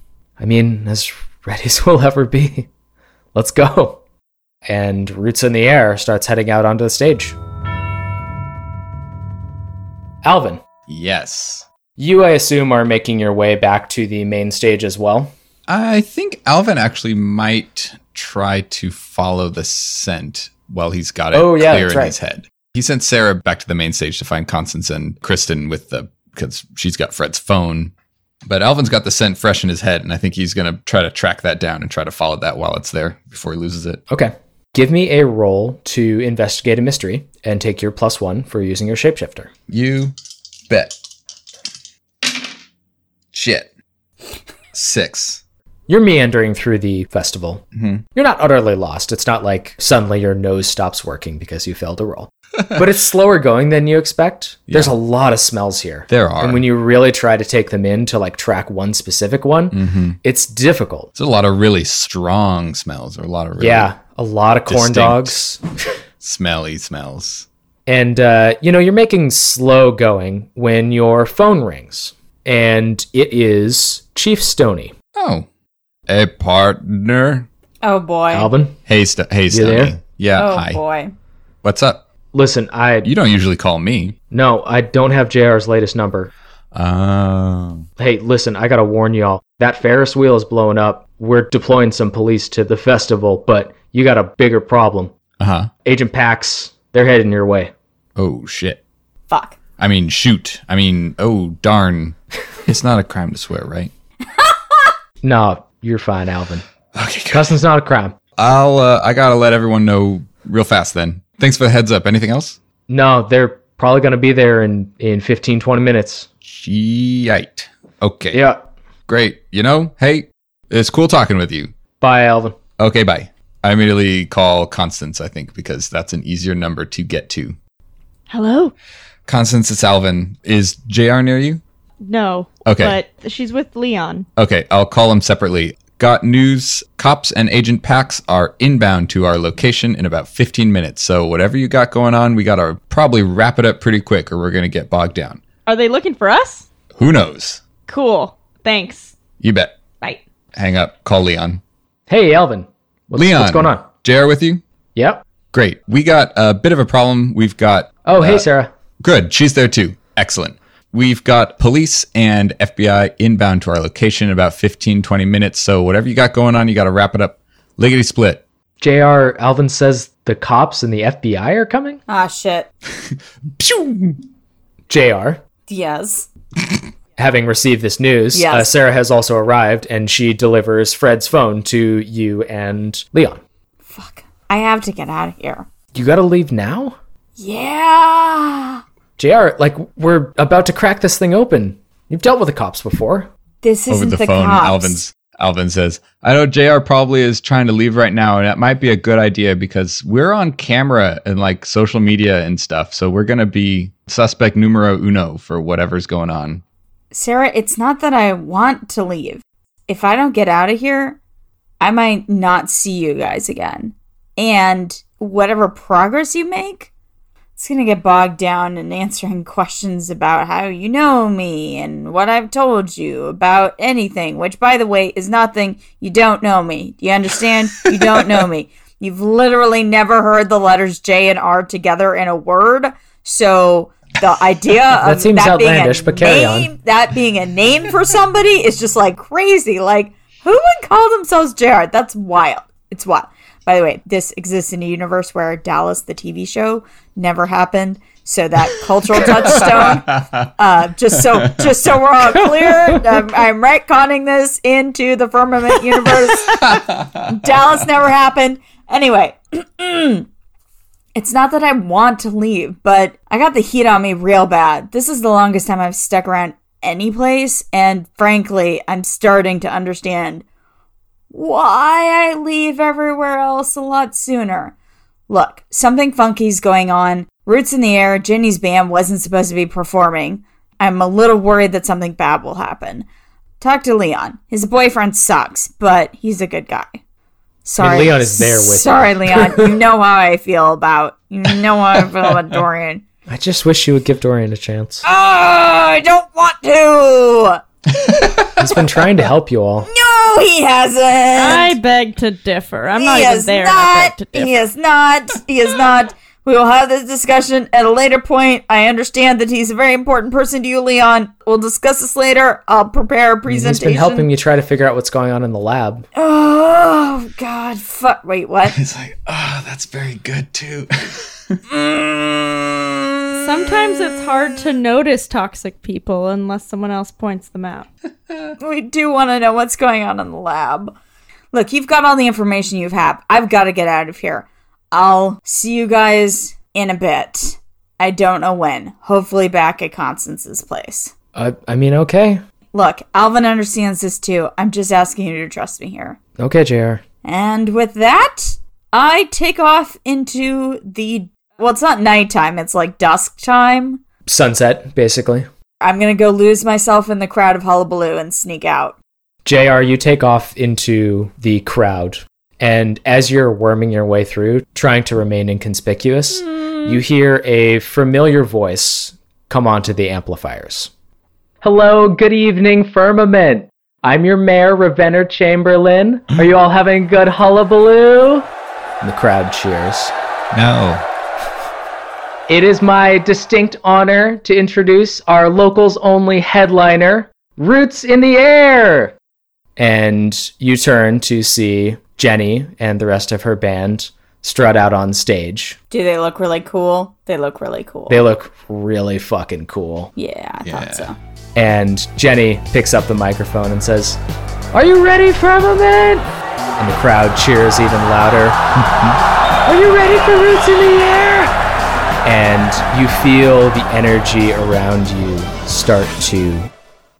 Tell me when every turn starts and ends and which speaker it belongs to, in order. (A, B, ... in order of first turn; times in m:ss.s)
0:00.4-0:02.7 A
0:03.3-0:04.0 A
0:04.6-0:07.4 A
0:10.2-0:10.6 A
0:10.9-0:11.6 B
0:12.0-0:15.3 A
0:15.7-0:27.9 B
0:21.3-0:22.1 A
0:28.4-0:34.0 B
0:34.1-0:39.5 A
0:39.7-0:40.1 B
0:40.7-0:40.9 B
0:43.3-0:43.7 B
0:44.7-0:45.4 B
0:45.9-0:47.6 A
0:47.7-0:48.0 B
0:48.1-1:01.1 A
0:54.7-0:54.9 B
0:56.1-0:56.7 B
0:59.7-1:00.2 B
1:01.2-1:03.9 B
1:03.6-1:05.6 A
1:04.7-1:05.4 B
1:06.2-1:07.4 B
1:07.8-1:14.9 A
1:15.2-1:15.5 B
1:16.1-1:17.5 B
1:17.8-1:18.5 C
1:18.3-1:18.8 A
1:18.9-1:20.8 B
1:19.5-1:20.0 A
1:20.3-1:21.1 C
1:21.6-1:22.0 B
1:22.3-1:23.1 A
1:23.0-1:24.2 B
1:24.3-1:26.3 A
1:26.7-1:27.9 B
1:28.0-1:35.1 A
1:35.4-1:35.7 B
1:35.8-1:37.7 A
1:38.2-1:38.8 B
1:39.3-1:39.6 C
1:39.8-1:43.9 B
1:45.2-1:46.6 A
1:46.9-1:47.6 B
1:47.3-1:48.2 A
1:48.4-1:52.6 B
1:52.9-1:56.3 A
1:56.4-1:58.4 B
1:58.3-1:58.6 A
1:59.1-2:01.7 B
2:02.0-2:02.6 A
2:02.8-2:07.6 B
2:08.3-2:08.7 D
2:09.3-2:11.6 B
2:12.0-2:14.2 D
2:12.6-2:13.0 B
2:14.4-2:25.4 B
2:25.6-2:26.7 D
2:27.0-2:27.6 B
2:27.9-2:29.1 D
2:29.4-2:29.7 B
2:30.5-2:31.6 B
2:32.1-2:33.8 A
2:33.1-2:34.6 B
2:34.9-2:35.2 A
2:35.5-2:38.4 B
2:38.0-2:38.7 A
2:39.0-2:48.4 B
2:48.8-2:52.0 A
2:52.1-2:52.7 C
2:53.6-2:54.1 B
2:54.9-2:55.4 A
2:55.7-2:56.3 C
2:57.2-3:03.4 A
2:58.3-2:58.7 C
3:03.9-3:05.7 C
3:05.9-3:07.0 A
3:07.4-3:08.8 C
3:09.2-3:13.3 A
3:13.6-3:15.0 C
3:13.9-3:26.6 B
3:27.1-3:31.2 C
3:31.8-3:36.9 C
3:37.6-4:20.3 C
3:55.0-3:56.7 A
4:09.5-4:09.9 B
4:21.1-4:30.4 C
4:31.3-4:34.7 C
4:35.3-4:43.0 C
4:43.6-4:47.0 C
4:47.6-4:53.0 C
4:47.8-4:49.8 A
4:53.3-4:55.0 A
4:55.0-4:57.6 C
4:58.2-4:58.6 B
4:58.5-4:59.9 A
4:59.8-5:01.7 C
5:01.4-5:04.5 D
5:03.0-5:14.3 C
5:13.5-5:16.1 A
5:16.1-5:18.8 C
5:18.7-5:21.6 B
5:21.7-5:22.3 C
5:23.4-5:27.9 D
5:28.6-5:30.9 C
5:31.5-5:41.1 C
5:41.3-5:42.4 A
5:42.7-5:46.2 C
5:46.4-5:47.0 A
5:47.2-5:54.0 C
5:54.2-5:55.5 A
5:55.8-5:59.0 C
5:59.4-6:10.9 A
6:06.4-6:07.0 C
6:11.6-6:18.5 A
6:19.0-6:20.1 A
6:20.5-6:21.0 B
6:22.5-6:29.1 A
6:29.8-6:35.8 A
6:35.9-6:38.2 C
6:38.1-6:40.1 A
6:40.2-6:41.2 C
6:40.6-6:41.1 B
6:41.5-6:44.2 A
6:44.7-6:48.6 A
6:49.6-6:51.5 A
6:52.2-6:56.7 A